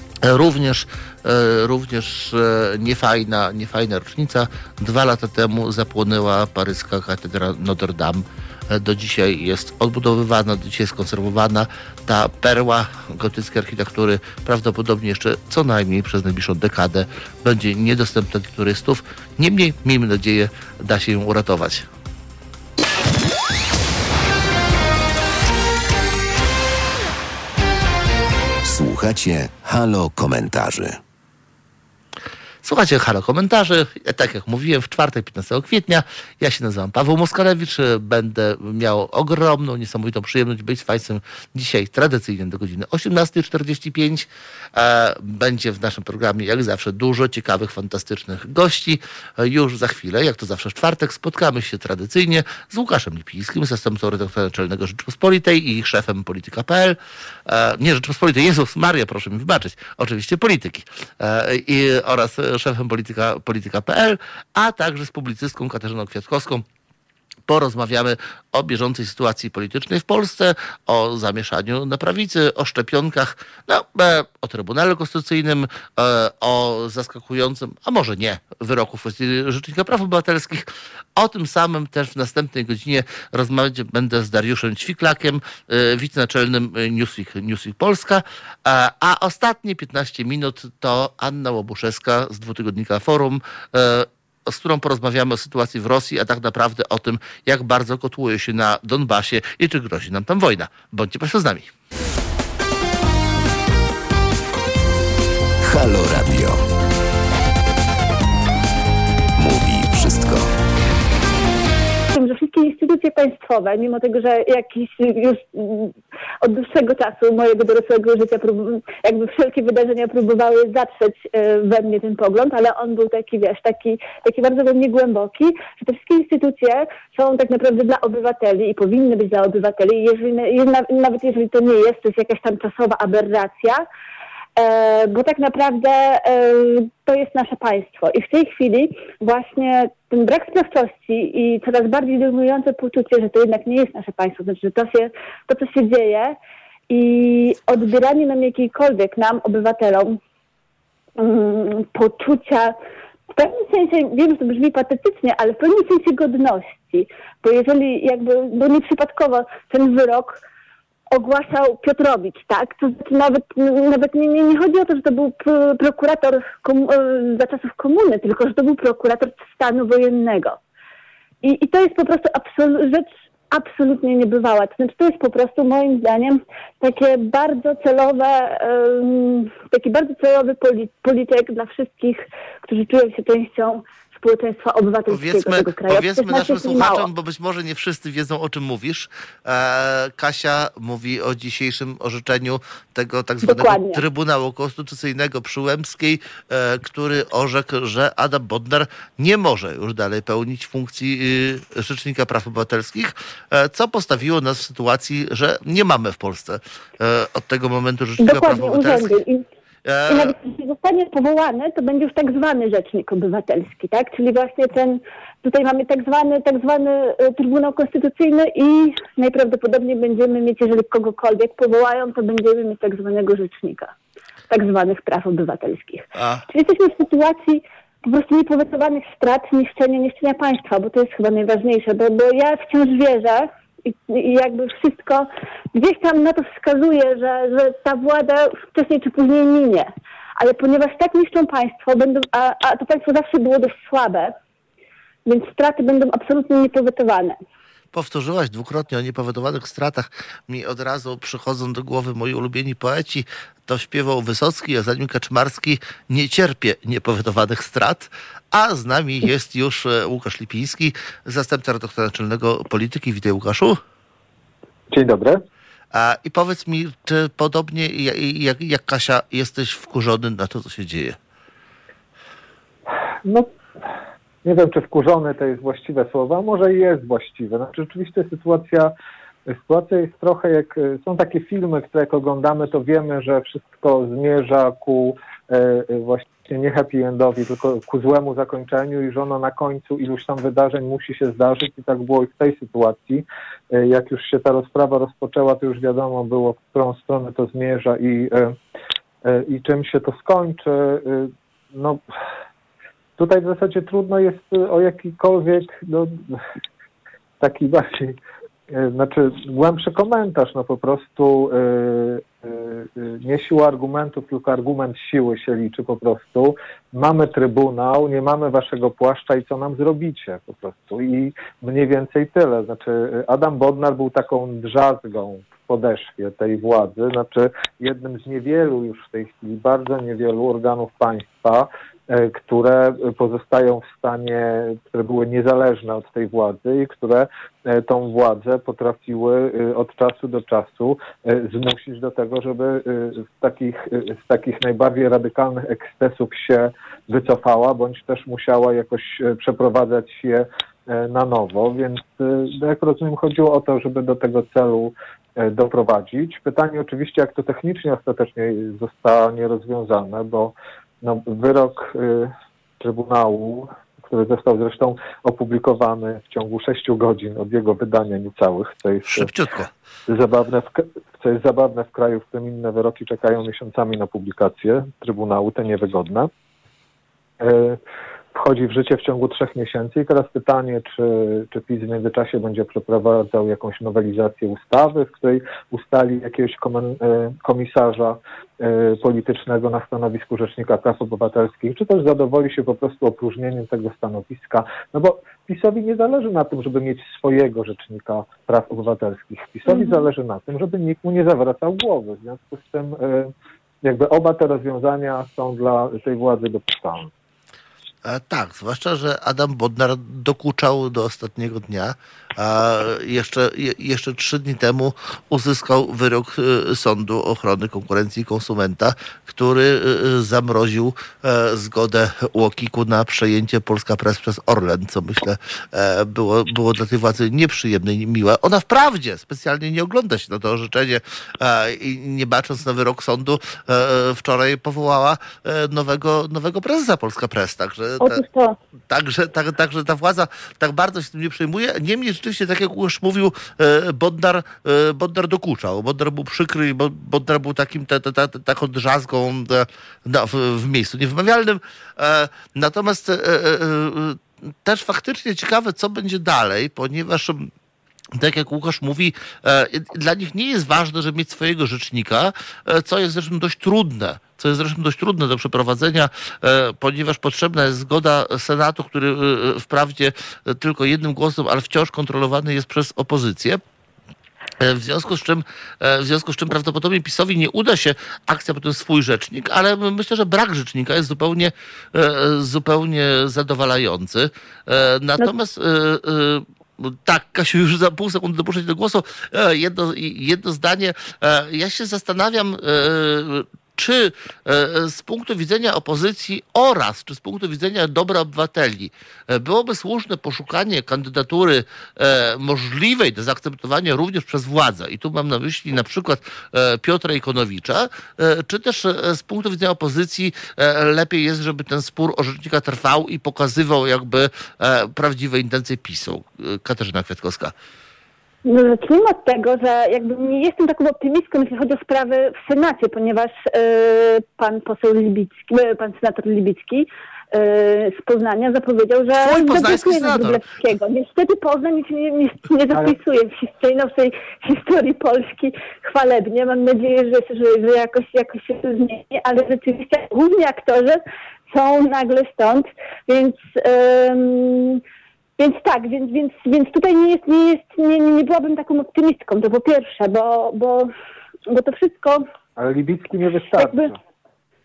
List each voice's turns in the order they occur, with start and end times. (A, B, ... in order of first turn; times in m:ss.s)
0:00.2-0:21.9 A
0:28.6-0:31.0 B
0:32.6-1:06.6 A
1:07.5-1:41.7 A
1:45.6-1:46.6 B
1:49.4-1:50.5 B
1:52.1-2:13.8 C
2:14.6-2:26.4 C
2:26.9-2:30.2 C
2:31.2-2:32.8 C
2:33.3-2:40.4 C
2:41.1-2:50.6 C
2:51.4-3:07.1 C
3:05.1-3:29.2 A
3:13.4-3:14.0 C
3:28.2-3:29.5 C
3:29.8-3:30.4 A
3:30.1-3:43.9 C
3:44.5-4:04.3 C
3:46.2-3:46.4 A
4:05.3-4:07.4 C
4:07.9-4:23.8 A
4:24.9-4:25.4 D
4:25.9-4:31.2 A
4:33.2-4:33.5 D
4:34.4-4:38.9 D
4:39.5-4:58.6 D
4:59.2-5:02.0 D
5:03.2-5:06.4 D
5:07.4-5:08.2 D
5:08.7-6:09.3 D
6:09.1-6:09.7 A
6:10.1-6:16.3 D
6:17.4-6:17.8 D
6:18.3-6:43.3 D
6:39.7-6:40.0 C
6:43.8-6:47.1 D
6:48.0-7:18.2 A
7:18.0-7:18.6 C
7:18.9-7:37.5 A
7:38.2-7:53.6 A
7:54.6-8:37.5 A
8:38.4-9:04.8 C
8:49.2-8:50.4 A
9:05.4-9:10.9 C
9:11.5-9:12.2 C
9:12.6-9:14.0 D
9:13.6-9:13.9 C